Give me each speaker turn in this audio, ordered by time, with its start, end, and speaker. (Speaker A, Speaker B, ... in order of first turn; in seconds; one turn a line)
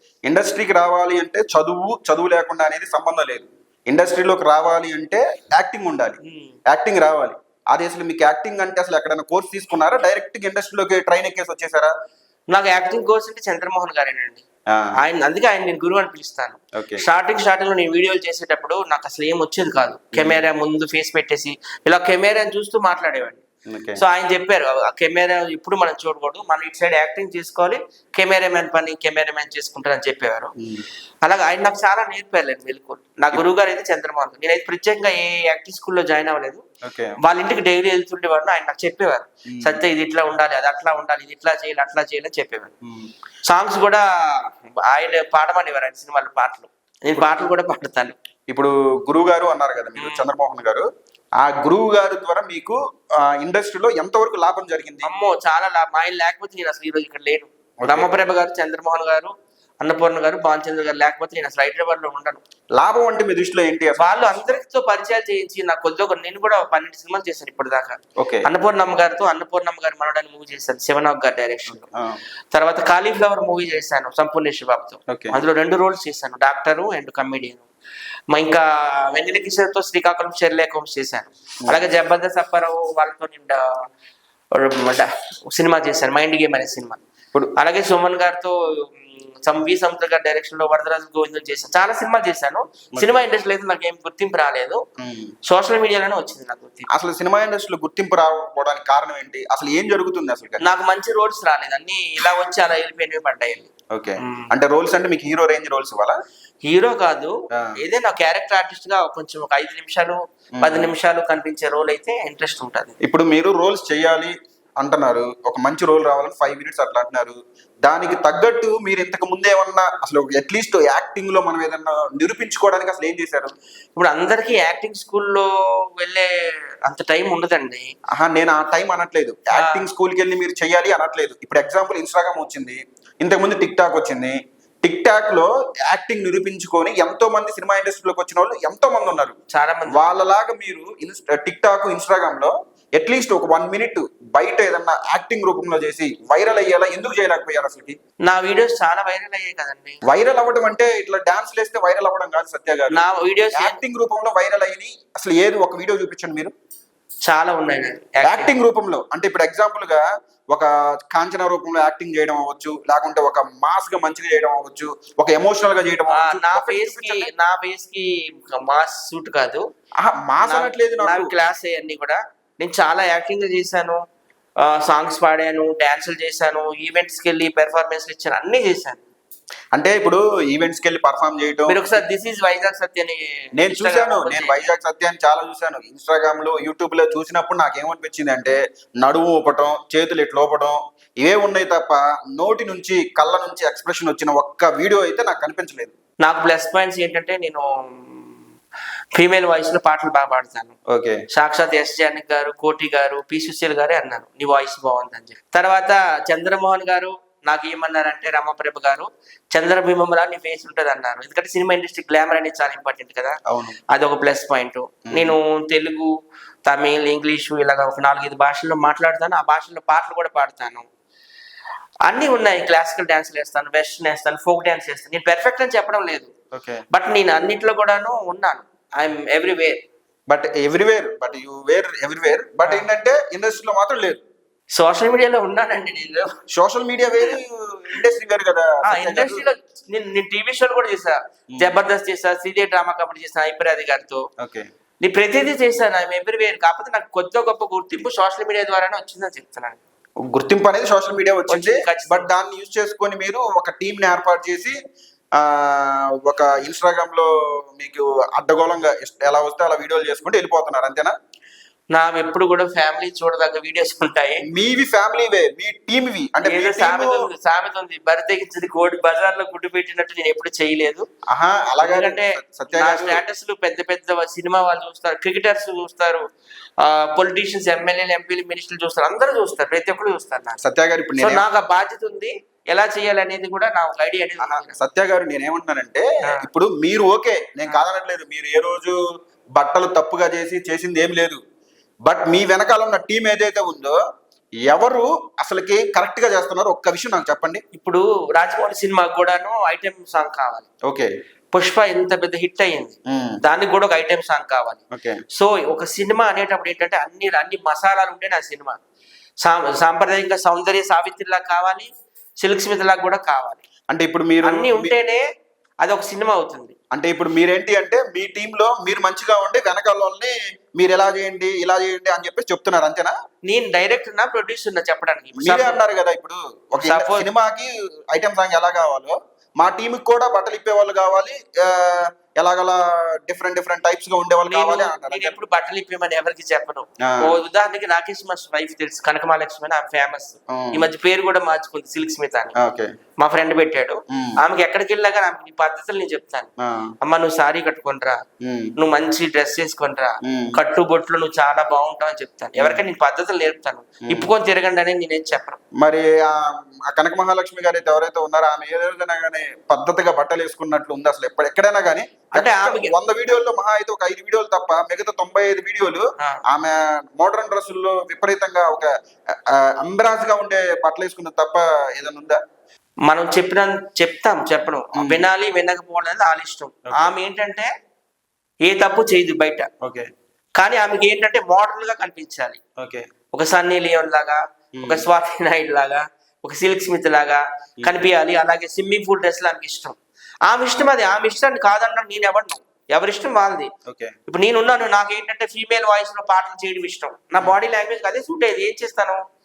Speaker A: 0.3-6.2
Speaker B: 6.2-6.5
Speaker A: 6.7-11.9
Speaker B: 12.5-14.4
Speaker B: 15.0-23.4
Speaker A: 16.8-17.0
Speaker A: 20.1-20.4
Speaker A: 23.7-24.0
Speaker B: 24.0-30.5
Speaker B: 31.2-36.6
Speaker A: 36.8-37.2
Speaker B: 37.2-42.7
Speaker A: 39.5-39.8
Speaker B: 43.5-48.1
Speaker A: 48.5-50.8
Speaker B: 50.0-50.2
Speaker A: 51.4-52.8
Speaker A: 53.3-55.1
Speaker B: 55.0-62.4
Speaker A: 57.8-58.1
Speaker A: 62.8-64.6
Speaker B: 64.0-71.9
Speaker A: 68.2-68.5
Speaker A: 71.7-72.2
Speaker B: 72.5-77.7
Speaker A: 75.1-75.3
Speaker B: 78.3-83.8
Speaker B: 84.5-87.0
Speaker B: 87.6-94.8
Speaker A: 95.0-95.3
Speaker B: 95.5-96.9
Speaker A: 96.9-100.6
Speaker B: 100.6-103.7
Speaker A: 103.9-106.1
Speaker B: 104.2-104.5
Speaker B: 106.6-112.9
Speaker A: 110.6-110.9
Speaker A: 113.0-123.5
Speaker B: 124.0-126.3
Speaker B: 126.8-127.8
Speaker A: 128.2-139.3
Speaker B: 129.6-129.8
Speaker B: 139.5-140.1
Speaker A: 139.9-148.0
Speaker B: 148.2-150.0
Speaker A: 150.1-153.0
Speaker B: 152.9-153.8
Speaker A: 153.5-156.5
Speaker B: 157.2-158.5
Speaker A: 158.2-167.3
Speaker B: 166.1-169.6
Speaker A: 170.0-171.3
Speaker B: 170.4-174.0
Speaker B: 174.6-179.0
Speaker A: 179.8-182.0
Speaker B: 181.7-184.7
Speaker A: 183.6-195.9
Speaker B: 196.2-198.3
Speaker B: 199.1-200.7
Speaker A: 200.9-201.2
Speaker B: 201.3-213.4
Speaker A: 213.5-213.7
Speaker B: 213.9-216.1
Speaker A: 215.1-215.3
Speaker B: 216.6-220.8
Speaker B: 222.1-226.3
Speaker A: 226.5-226.8
Speaker B: 226.9-229.8
Speaker A: 230.3-234.2
Speaker B: 234.7-236.3
Speaker A: 236.5-239.4
Speaker B: 238.9-244.2
Speaker B: 245.0-249.8
Speaker A: 250.3-254.8
Speaker B: 251.5-252.3
Speaker A: 255.4-261.1
Speaker B: 261.9-264.4
Speaker A: 264.5-267.3
Speaker B: 266.4-271.1
Speaker A: 271.3-273.2
Speaker B: 271.8-276.2
Speaker B: 276.8-280.6
Speaker A: 280.6-281.4
Speaker B: 281.2-284.8
Speaker A: 284.4-288.9
Speaker A: 289.6-291.4
Speaker A: 292.1-293.9
Speaker A: 294.7-297.6
Speaker B: 297.7-300.7
Speaker B: 301.5-304.8
Speaker A: 303.1-303.4
Speaker A: 304.9-305.2
Speaker B: 305.3-308.8
Speaker B: 309.4-313.6
Speaker A: 313.9-314.9
Speaker B: 314.4-315.2
Speaker B: 315.8-316.7
Speaker A: 316.9-323.1
Speaker B: 323.4-325.8
Speaker A: 325.4-335.4
Speaker B: 326.8-327.3
Speaker B: 334.5-342.5
Speaker A: 340.5-340.9
Speaker A: 342.6-342.9
Speaker B: 343.2-346.5
Speaker A: 344.1-344.4
Speaker A: 346.6-346.9
Speaker B: 347.0-348.2
Speaker A: 348.4-348.7
Speaker B: 348.8-355.6
Speaker A: 350.2-350.6
Speaker A: 355.8-368.9
Speaker B: 362.3-362.9
Speaker A: 369.5-372.4
Speaker B: 373.1-377.7
Speaker A: 374.9-375.3
Speaker B: 378.6-379.7
Speaker A: 379.8-380.1
Speaker B: 380.6-382.6
Speaker A: 382.8-383.0
Speaker B: 383.3-393.7
Speaker A: 384.8-385.1
Speaker A: 393.9-394.1
Speaker B: 394.3-399.2